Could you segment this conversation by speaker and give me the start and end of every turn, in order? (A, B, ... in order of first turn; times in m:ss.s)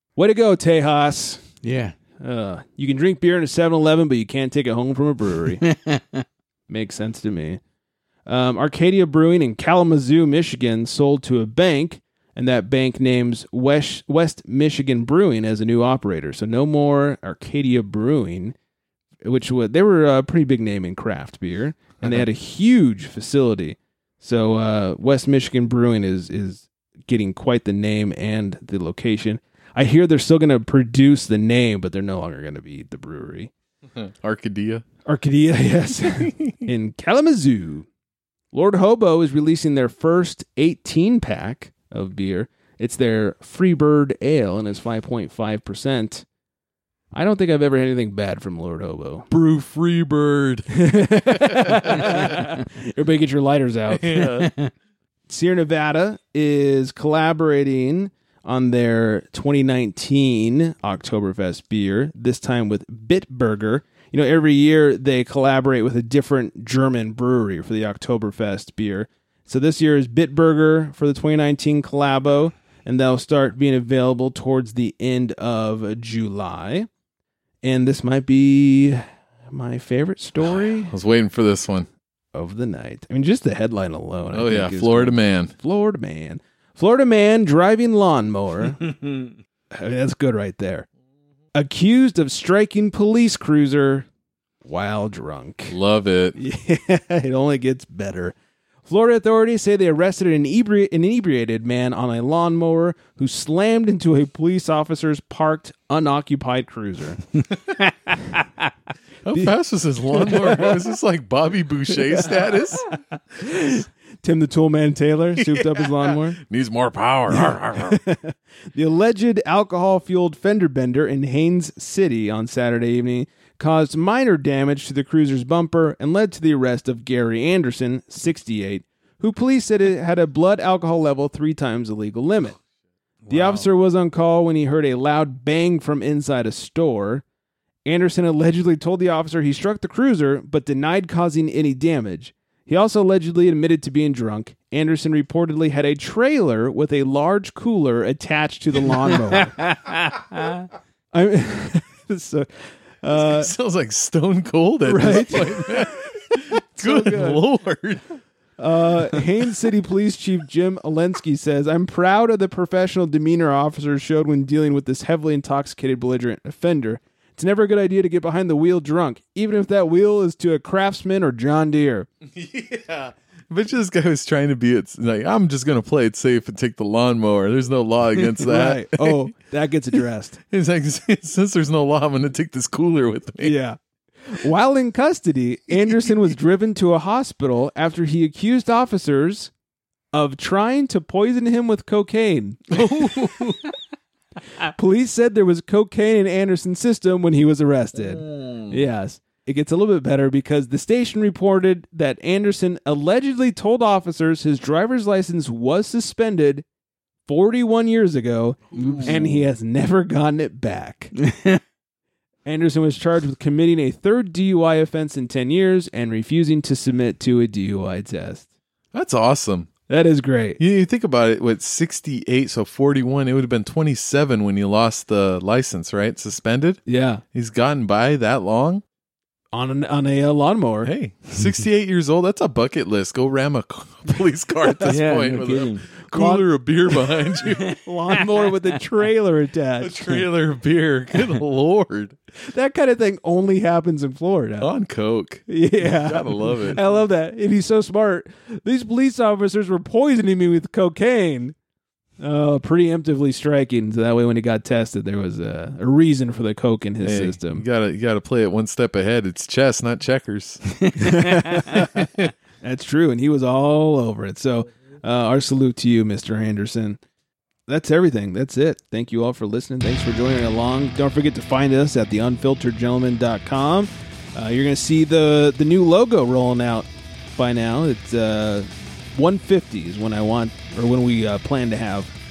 0:00.2-0:01.4 A
0:01.6-0:01.9 B
0:02.2-0:05.6 A
0:05.6-0:06.2 B
0:06.7-0:07.6 A
0:08.3-0:18.5 A
0:19.2-0:33.5 A
0:22.0-0:22.2 C
0:34.0-0:34.8 C
0:35.0-0:37.9 A
0:38.5-0:46.2 A
0:47.1-0:49.3 A
0:49.3-0:52.4 C
0:50.7-0:54.2 A
0:53.9-0:54.5 C
0:54.4-0:54.7 B
0:55.3-1:16.9 A
1:17.6-1:20.9 A
1:20.4-1:21.9 C
1:22.3-1:28.9 A
1:24.3-1:25.5 C
1:29.7-1:30.9 A
1:31.5-1:34.0 A
1:34.6-1:35.8 A
1:35.7-1:36.4 C
1:36.3-1:38.3 A
1:38.8-1:47.2 A
1:49.2-1:52.9 C
1:50.2-1:50.7 A
1:53.4-1:56.4 A
1:55.4-1:58.0 C
1:57.3-2:12.6 A
2:13.2-2:13.6 B
2:13.3-2:17.2 A
2:17.8-2:29.5 A
2:29.6-2:30.6 B
2:31.1-2:32.5 A
2:33.0-2:33.5 A
2:33.1-2:38.0 C
2:34.8-2:37.4 A
2:38.6-2:52.1 A
2:52.3-2:59.2 C
2:58.4-3:00.4 A
3:00.5-3:03.6 C
3:03.4-3:09.5 A
3:05.7-3:06.3 C
3:10.1-3:13.4 A
3:12.7-3:13.6 C
3:14.6-3:26.6 A
3:18.0-3:18.8 C
3:27.2-3:31.1 A
3:28.7-3:29.2 C
3:28.9-3:29.4 B
3:31.2-3:31.6 B
3:32.4-3:38.4 A
3:38.9-3:39.7 C
3:39.9-3:40.6 A
3:40.6-3:46.8 C
3:46.8-3:47.2 A
3:47.3-3:48.8 C
3:49.5-3:50.9 A
3:50.8-3:58.2 C
3:54.6-3:55.0 A
3:54.8-3:55.9 B
3:56.1-3:56.5 A
3:57.7-4:00.2 A
3:59.8-4:02.2 C
4:02.5-4:04.7 A
4:04.6-4:06.8 C
4:05.5-4:11.5 A
4:12.2-4:17.6 A
4:17.0-4:20.6 C
4:20.7-4:21.1 B
4:21.0-4:22.1 A
4:22.6-4:27.0 A
4:27.7-4:42.1 A